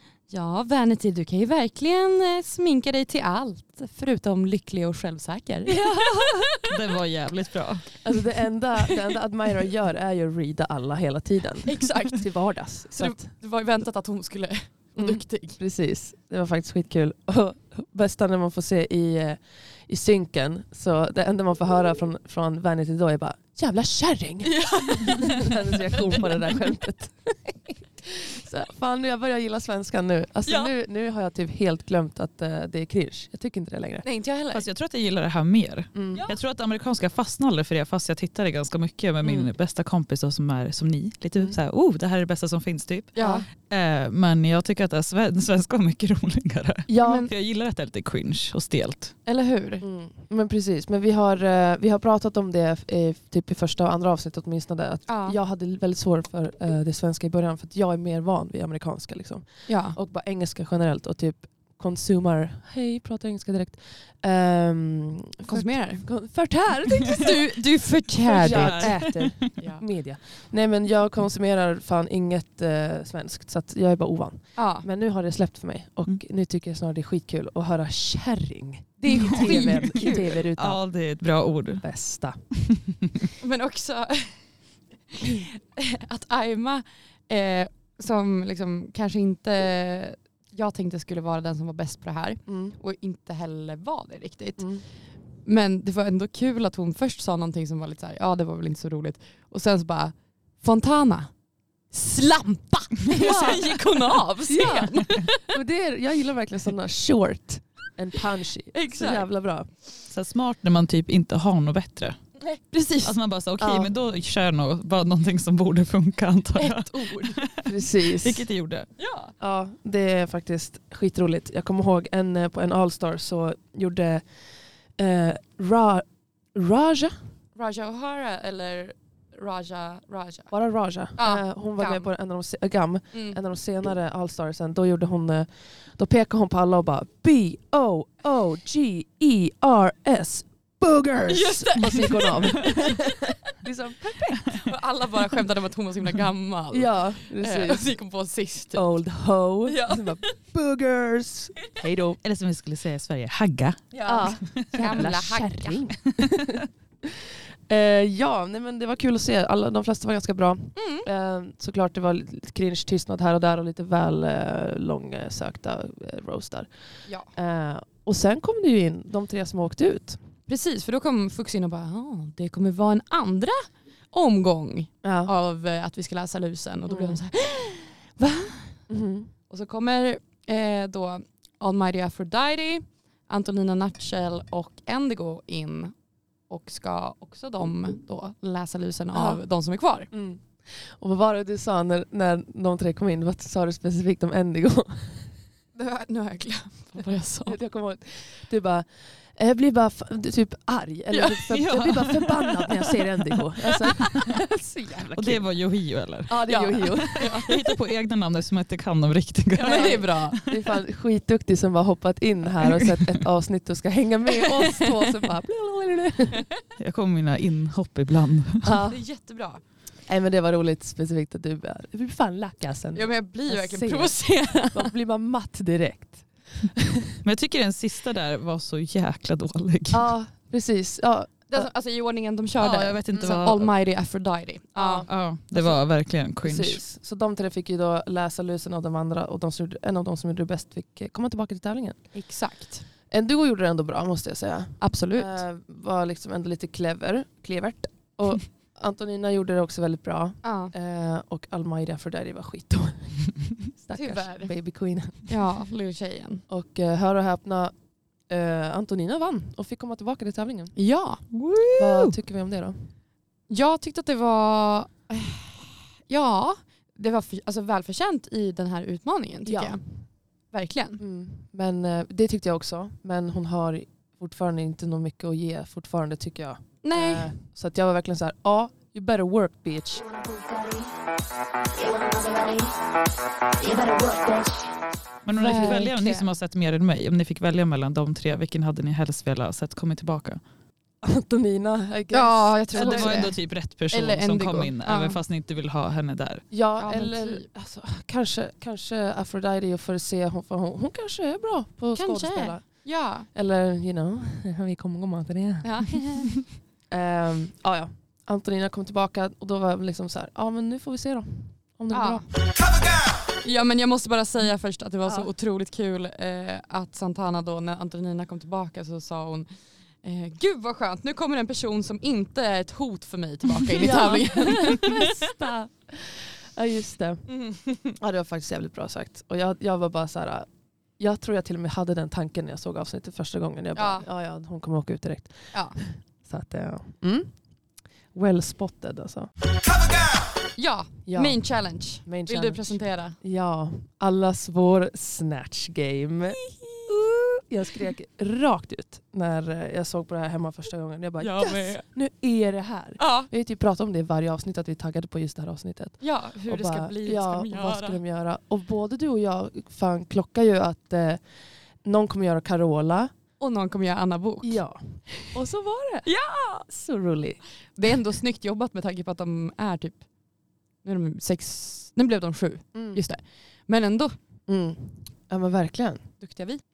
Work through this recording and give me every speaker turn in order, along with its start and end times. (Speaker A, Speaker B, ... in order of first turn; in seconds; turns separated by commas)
Speaker A: 0.3-6.8, Speaker B: 5.7-6.5, Speaker C: 6.7-7.9, Speaker B: 8.0-13.2, Speaker A: 11.7-12.3, Speaker A: 12.9-15.6, Speaker B: 15.0-34.0, Speaker A: 24.5-25.5, Speaker A: 30.5-30.7, Speaker A: 34.0-34.6, Speaker C: 34.5-49.1, Speaker B: 36.0-36.2, Speaker A: 36.1-36.4, Speaker A: 43.2-43.5, Speaker B: 43.2-43.5, Speaker B: 46.9-47.3, Speaker A: 47.0-47.3, Speaker A: 49.3-49.8, Speaker B: 49.8-67.6, Speaker A: 55.1-55.4, Speaker A: 59.7-60.0, Speaker A: 65.5-66.1, Speaker A: 67.0-69.0, Speaker B: 68.3-80.8, Speaker C: 68.4-69.4, Speaker A: 74.6-74.9, Speaker A: 79.1-80.3, Speaker C: 79.1-81.8, Speaker B: 81.8-82.4, Speaker C: 82.7-83.2, Speaker A: 83.4-84.4, Speaker A: 85.1-94.6, Speaker B: 92.5-92.8, Speaker B: 94.6-94.8, Speaker A: 95.5-101.3, Speaker A: 101.9-105.6, Speaker C: 103.1-103.6, Speaker B: 104.5-109.7, Speaker A: 108.7-109.3, Speaker C: 110.1-112.2, Speaker A: 112.5-113.2, Speaker C: 113.0-118.9, Speaker B: 113.6-113.9, Speaker A: 116.6-117.4, Speaker B: 117.6-118.5, Speaker A: 119.0-119.3, Speaker B: 119.4-124.2, Speaker B: 125.0-127.3, Speaker A: 127.6-130.5, Speaker B: 130.5-144.6, Speaker A: 131.2-132.1, Speaker A: 141.3-143.3, Speaker C: 142.4-142.7, Speaker A: 144.4-148.9, Speaker B: 146.7-147.9, Speaker B: 148.7-152.2, Speaker A: 149.7-150.4, Speaker C: 152.2-153.8, Speaker A: 153.9-155.9, Speaker B: 154.1-166.7, Speaker C: 154.4-155.2, Speaker C: 156.2-156.7, Speaker A: 160.8-161.1, Speaker B: 167.3-170.2, Speaker A: 170.5-178.7, Speaker B: 175.0-175.3, Speaker B: 176.9-177.2, Speaker B: 178.9-179.3, Speaker A: 179.5-185.9, Speaker A: 186.5-190.1, Speaker B: 189.1-189.4, Speaker B: 190.1-195.3, Speaker A: 195.8-197.6, Speaker B: 197.4-205.5, Speaker A: 201.1-201.4, Speaker C: 201.5-202.6, Speaker C: 205.2-210.4, Speaker B: 206.3-207.5, Speaker A: 206.5-207.6, Speaker A: 209.6-210.4, Speaker B: 209.6-216.4, Speaker A: 214.5-215.1, Speaker C: 216.8-218.7, Speaker B: 218.6-219.0, Speaker A: 218.9-219.6, Speaker B: 220.1-227.2, Speaker A: 222.9-224.9, Speaker C: 227.2-230.1, Speaker B: 229.9-231.7, Speaker A: 231.5-235.1, Speaker C: 232.6-233.7, Speaker B: 234.8-235.8, Speaker C: 235.1-236.8, Speaker B: 236.4-242.0, Speaker A: 242.1-242.8, Speaker B: 243.1-255.3, Speaker A: 244.8-245.4, Speaker A: 250.4-250.7, Speaker A: 253.9-254.5, Speaker A: 255.3-256.4, Speaker B: 256.5-257.7, Speaker B: 258.3-260.8, Speaker A: 260.8-262.1, Speaker B: 261.8-262.8, Speaker A: 263.5-269.8, Speaker B: 269.4-269.8, Speaker A: 270.5-271.0, Speaker B: 271.0-280.1, Speaker A: 276.8-277.3, Speaker A: 280.2-280.8, Speaker A: 281.8-282.4, Speaker A: 283.6-284.3, Speaker C: 285.2-290.4, Speaker A: 285.4-286.3, Speaker B: 291.0-293.3, Speaker A: 292.1-295.2, Speaker C: 292.7-296.4, Speaker B: 296.5-302.8, Speaker A: 296.8-297.4, Speaker A: 301.9-303.3, Speaker B: 303.3-305.9, Speaker A: 305.6-306.4, Speaker B: 306.9-312.3, Speaker A: 311.9-312.3, Speaker A: 313.4-319.5, Speaker A: 320.0-325.2, Speaker B: 323.8-327.3, Speaker A: 327.3-327.9, Speaker B: 328.0-330.5, Speaker B: 331.0-337.3, Speaker A: 333.8-334.1, Speaker B: 338.1-339.3, Speaker A: 340.6-343.2, Speaker B: 341.1-341.4, Speaker B: 342.1-361.2, Speaker A: 346.4-346.9, Speaker A: 351.2-351.8, Speaker A: 353.0-353.3, Speaker A: 356.0-358.0, Speaker B: 361.8-363.1, Speaker A: 363.4-364.6, Speaker B: 364.4-366.1, Speaker A: 366.1-366.7, Speaker B: 366.7-367.4, Speaker A: 367.8-370.0, Speaker A: 370.8-374.1, Speaker B: 372.8-373.0, Speaker B: 374.5-376.0, Speaker A: 376.2-376.6